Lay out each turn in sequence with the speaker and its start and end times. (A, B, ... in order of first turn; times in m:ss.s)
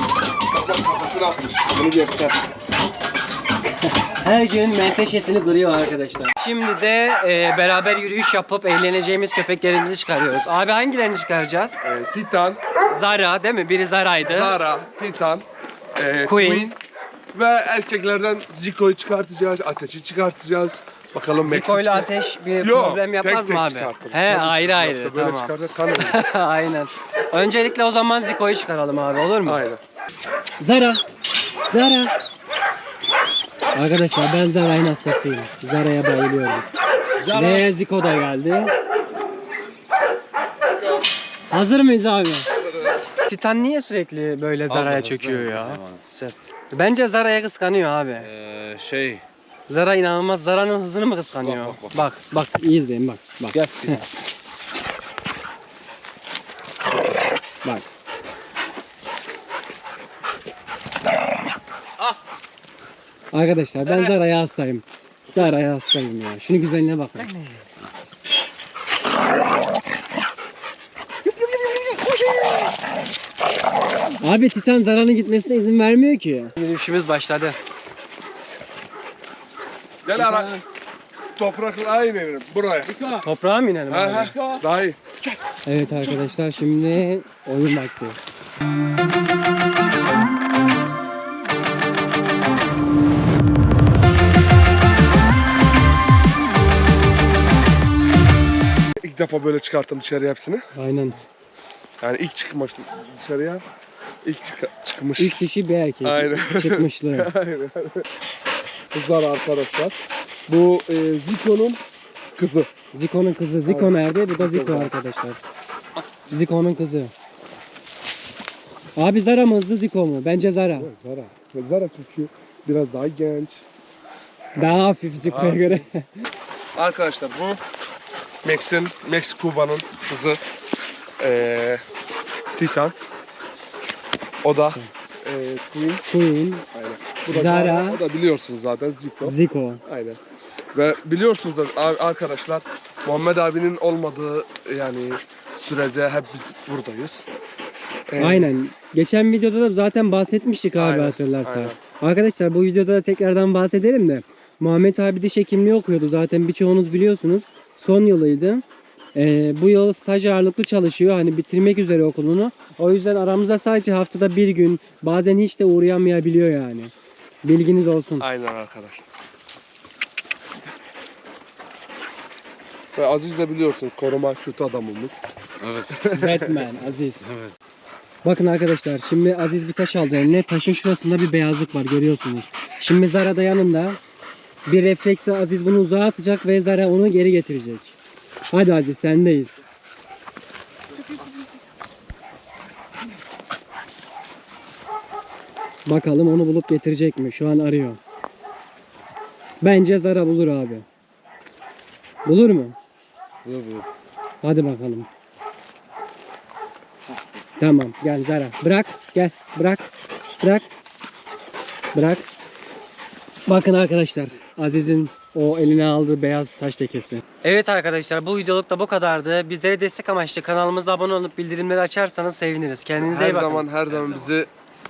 0:00.5-0:02.4 A
0:03.8-0:11.8 B
0:11.8-0:12.6 A
0:12.9-0:14.6 B
0:14.2-0:15.4 A
0:16.0-0:16.8 A
0:16.2-0:16.7 B
0:17.3-0:26.2 A
0:21.4-0:29.6 B
0:29.4-0:29.8 A
0:30.6-0:31.0 B
0:31.7-0:32.1 B
0:33.7-0:36.7 B
0:37.2-0:37.7 A
0:37.3-0:38.7 B
0:41.5-0:42.5 B
0:43.2-0:45.8 B
0:44.7-0:46.4 C
0:46.7-0:48.3 B
0:48.2-0:49.2 C
0:49.7-0:54.0 B
0:51.4-0:51.9 C
1:03.3-1:07.3 B
1:14.2-1:17.6 B
1:20.0-1:20.5 A
1:20.2-1:20.6 B
1:21.4-1:23.2 A
1:23.2-1:24.4 B
1:23.9-1:25.0 A
1:25.7-1:28.2 B
1:39.0-1:40.7 A
1:40.7-1:41.2 B
1:42.0-1:43.6 A
1:44.2-1:45.4 A
1:45.2-1:47.3 B
1:46.0-1:48.1 A
1:48.9-1:51.8 A
1:52.4-1:52.7 A
1:52.9-1:55.4 B
1:53.7-1:54.9 A
1:56.3-1:57.1 B
1:59.0-2:00.9 B
2:00.7-2:03.6 A
2:04.6-2:06.2 B
2:05.2-2:05.8 A
2:06.7-2:07.6 A
2:08.4-2:10.4 A
2:11.2-2:11.8 A
2:12.5-2:13.0 A
2:14.4-2:16.0 A
2:16.1-2:16.7 B
2:16.7-2:19.3 A
2:17.3-2:18.0 B
2:19.2-2:19.8 B
2:19.8-2:20.2 A
2:20.7-2:27.3 A
2:28.1-2:28.5 A
2:28.2-2:38.6 B
2:30.8-2:31.8 A
2:39.2-2:46.9 B
2:47.4-2:48.3 B
2:48.2-2:49.1 A
2:53.0-2:55.2 A
2:55.6-2:56.0 C
2:55.9-2:56.6 A
2:56.1-2:57.3 B
2:57.2-2:57.5 C
2:58.2-3:04.0 B
3:04.7-3:08.0 B
3:08.5-3:09.6 B
3:15.8-3:18.0 B
3:19.6-3:20.8 B
3:22.2-3:22.8 B
3:23.5-3:23.8 A
3:23.5-3:23.8 C
3:24.4-3:25.1 B
3:27.6-3:29.9 B
3:30.4-3:30.7 B
3:31.9-3:32.3 B
3:33.5-3:43.7 B
3:43.0-3:44.5 A
3:43.9-3:44.3 C